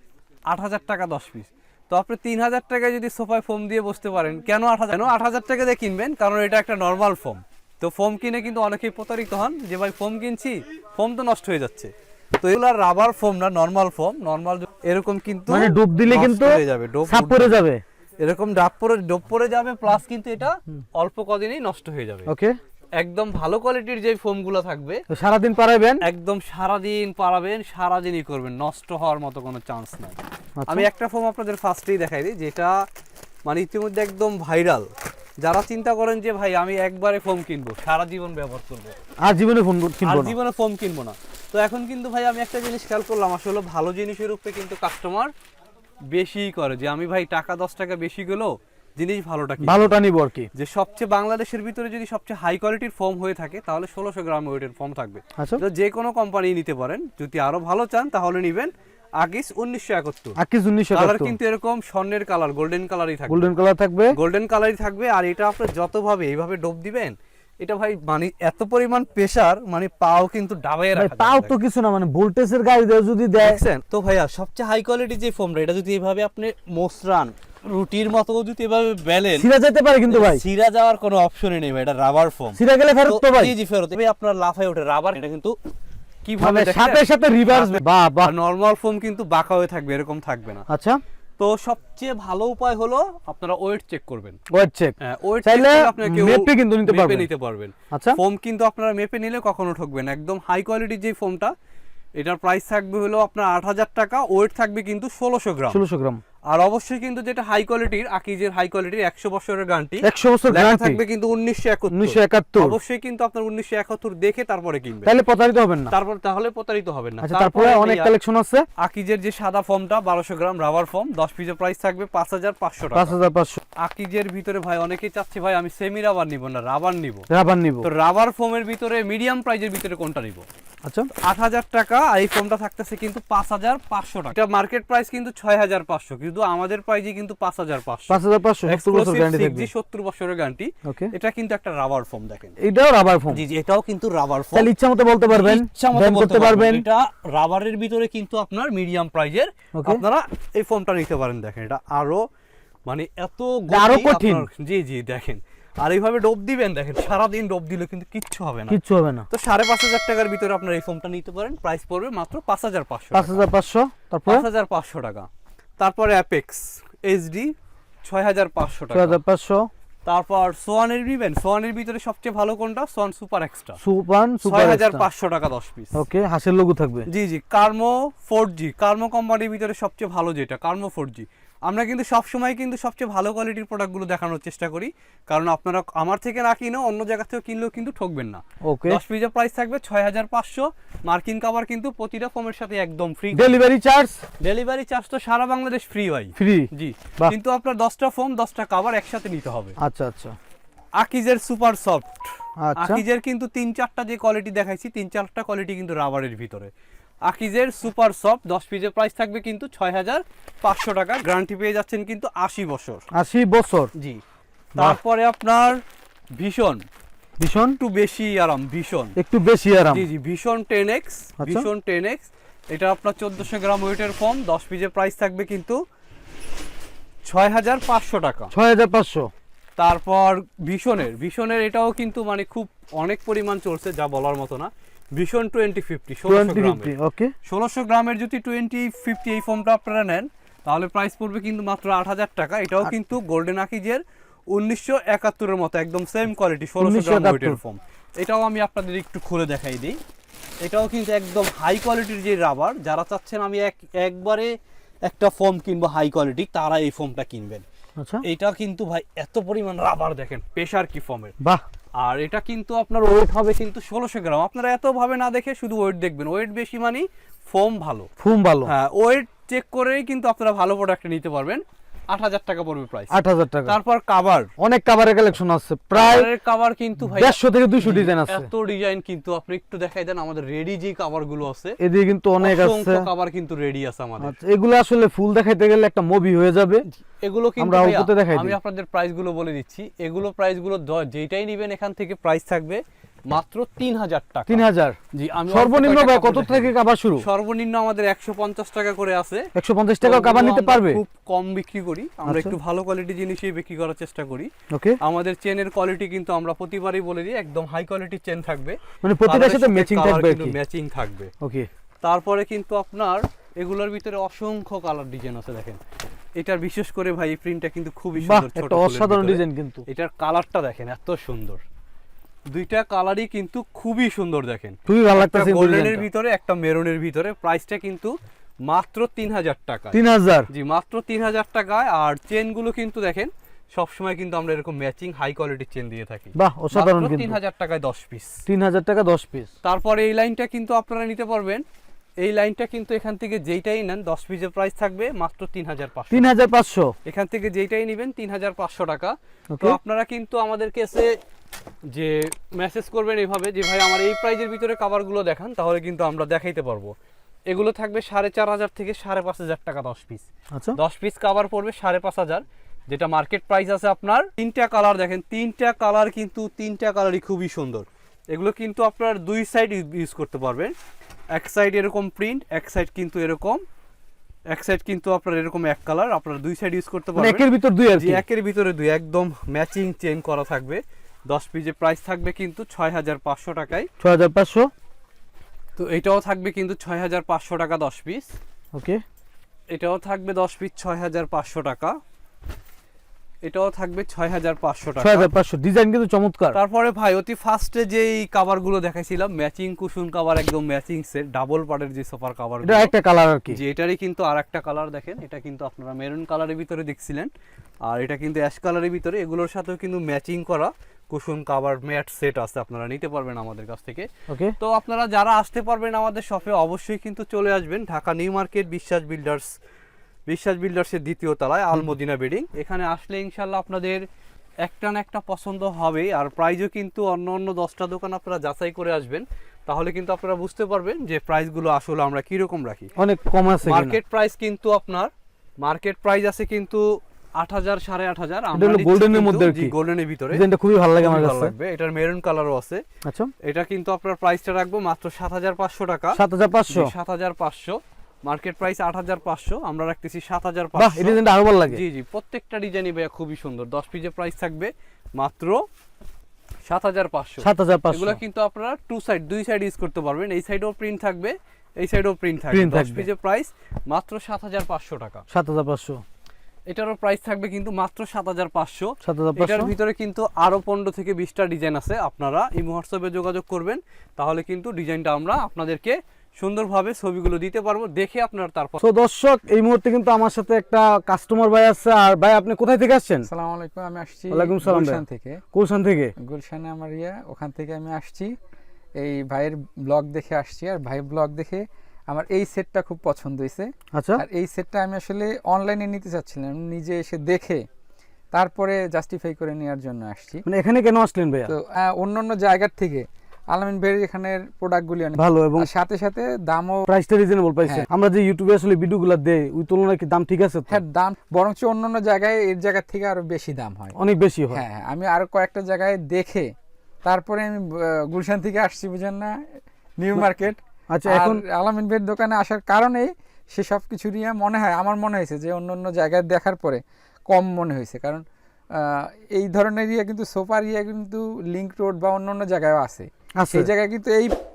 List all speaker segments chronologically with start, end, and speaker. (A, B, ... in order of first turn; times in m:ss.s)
0:00.5-0:17.6 A
0:15.5-0:17.8 B
0:18.2-0:22.3 A
0:22.2-0:22.5 B
0:23.0-0:25.0 A
0:25.1-0:26.0 B
0:26.0-0:30.2 A
0:30.6-0:30.8 B
0:30.7-0:32.7 A
0:33.4-0:34.9 A
0:35.4-0:38.9 A
0:39.2-0:40.3 B
0:40.0-0:45.3 A
0:46.1-0:49.9 A
0:49.6-0:50.5 B
0:50.5-1:00.4 A
1:00.4-1:01.3 B
1:00.9-1:03.5 A
1:03.3-1:04.1 B
1:04.1-1:11.6 A
1:10.9-1:13.6 B
1:13.4-1:19.5 A
1:19.4-1:20.4 B
1:20.1-1:25.5 A
1:22.6-1:23.5 B
1:26.2-1:30.6 A
1:26.4-1:28.3 B
1:30.7-1:31.0 B
1:31.4-1:34.4 A
1:34.5-1:37.3 B
1:35.0-1:41.5 A
1:37.9-1:38.2 B
1:42.2-1:45.8 A
1:45.7-1:46.2 B
1:46.5-1:55.1 A
1:50.0-1:51.0 B
1:51.9-1:52.8 B
1:55.0-1:55.9 B
1:55.9-1:58.1 A
1:57.2-1:58.6 B
1:58.8-2:03.2 A
2:02.9-2:03.6 B
2:03.8-2:07.2 A
2:07.3-2:07.8 B
2:07.8-2:10.4 A
2:11.2-2:22.5 A
2:18.1-2:19.7 B
2:20.8-2:21.1 B
2:22.6-2:23.4 B
2:23.3-2:24.7 A
2:24.5-2:26.8 B
2:25.3-2:32.2 A
2:29.7-2:30.0 B
2:32.8-2:38.8 A
2:33.7-2:34.4 B
2:38.7-2:39.2 B
2:39.3-2:43.5 A
2:43.1-2:44.4 B
2:44.2-2:45.3 A
2:45.8-2:47.5 A
2:48.0-2:49.2 A
2:48.9-2:49.7 B
2:50.0-2:53.8 A
2:53.8-2:55.0 B
2:54.4-2:55.9 A
2:55.9-2:57.1 B
2:57.1-3:13.6 A
3:08.6-3:09.0 B
3:13.3-3:14.2 B
3:14.4-3:19.7 A
3:16.4-3:16.7 B
3:19.8-3:20.4 B
3:21.0-3:22.2 A
3:22.6-3:23.0 B
3:22.8-3:26.7 A
3:27.3-3:33.0 A
3:33.1-3:33.9 B
3:34.8-3:35.8 A
3:36.4-3:36.8 A
3:37.4-3:37.8 B
3:37.8-3:39.1 A
3:39.2-3:40.0 B
3:39.9-3:45.8 A
3:41.4-3:41.6 B
3:47.2-3:48.5 A
3:48.5-3:49.3 B
3:49.8-3:56.9 A
3:56.2-3:57.3 B
3:57.4-4:10.0 A
4:06.8-4:07.6 B
4:10.6-4:14.5 A
4:15.0-4:17.6 A
4:18.2-4:21.3 A
4:22.0-4:28.1 A
4:28.2-4:28.7 B
4:28.6-4:33.1 A
4:33.1-4:33.8 B
4:33.6-4:34.5 A
4:34.6-4:36.3 B
4:35.9-4:41.8 A
4:37.1-4:38.5 B
4:41.8-4:43.1 B
4:42.4-4:44.3 A
4:44.2-4:46.8 B
4:46.9-4:59.5 A
4:47.6-4:48.6 B
4:54.5-4:55.0 B
4:55.5-4:57.2 B
4:59.6-5:01.0 B
5:00.0-5:04.5 A
5:02.2-5:02.6 B
5:04.7-5:05.0 B
5:05.0-5:11.3 A
5:09.0-5:10.5 B
5:11.4-5:11.7 B
5:12.0-5:15.8 A
5:16.4-5:21.6 A
5:18.2-5:19.8 B
5:22.5-5:28.1 A
5:24.8-5:26.0 B
5:28.7-5:30.0 A
5:29.9-5:30.4 B
5:30.5-5:38.3 A
5:36.3-5:37.4 B
5:38.4-5:39.5 B
5:39.6-5:41.6 A
5:42.2-5:46.3 A
5:46.1-5:46.9 B
5:47.0-5:51.1 A
5:51.9-5:56.9 A
5:57.5-6:10.7 A
6:11.3-6:13.6 A
6:14.5-6:23.9 A
6:17.1-6:18.2 B
6:24.0-6:24.7 B
6:25.8-6:28.3 A
6:28.7-6:29.0 B
6:29.7-6:32.0 A
6:33.4-6:35.3 A
6:35.0-6:36.6 B
6:36.5-6:42.9 A
6:42.6-6:43.6 B
6:43.5-6:47.3 A
6:47.8-6:54.1 A
6:54.3-6:54.5 B
6:54.6-6:59.5 A
7:00.3-7:04.0 A
7:04.6-7:12.9 A
7:13.0-7:14.0 B
7:13.6-7:15.1 A
7:15.6-7:16.8 A
7:17.4-7:20.4 A
7:18.5-7:19.7 B
7:20.3-7:21.5 B
7:21.0-7:22.8 A
7:23.0-7:23.3 B
7:23.4-7:26.2 A
7:26.1-7:26.9 B
7:26.7-7:31.2 A
7:30.8-7:31.8 B
7:31.7-7:35.6 A
7:36.6-7:45.2 A
7:37.4-7:38.2 B
7:42.5-7:43.1 B
7:45.3-7:46.0 B
7:46.7-7:58.8 A
7:49.0-7:49.7 B
7:58.8-8:03.3 B
8:03.3-8:05.4 C
8:04.3-8:06.1 B
8:06.2-8:08.3 C
8:09.0-8:17.6 C
8:13.9-8:14.2 B
8:18.3-8:20.4 C
8:20.4-8:21.5 B
8:21.4-8:26.9 C
8:25.2-8:25.7 B
8:26.9-8:30.8 B
8:30.7-8:33.9 C
8:34.0-8:34.6 B
8:34.5-8:36.5 C
8:37.0-8:39.3 C
8:40.0-8:48.2 C
8:40.9-8:41.4 B
8:48.8-8:54.3 C
8:53.4-8:53.7 B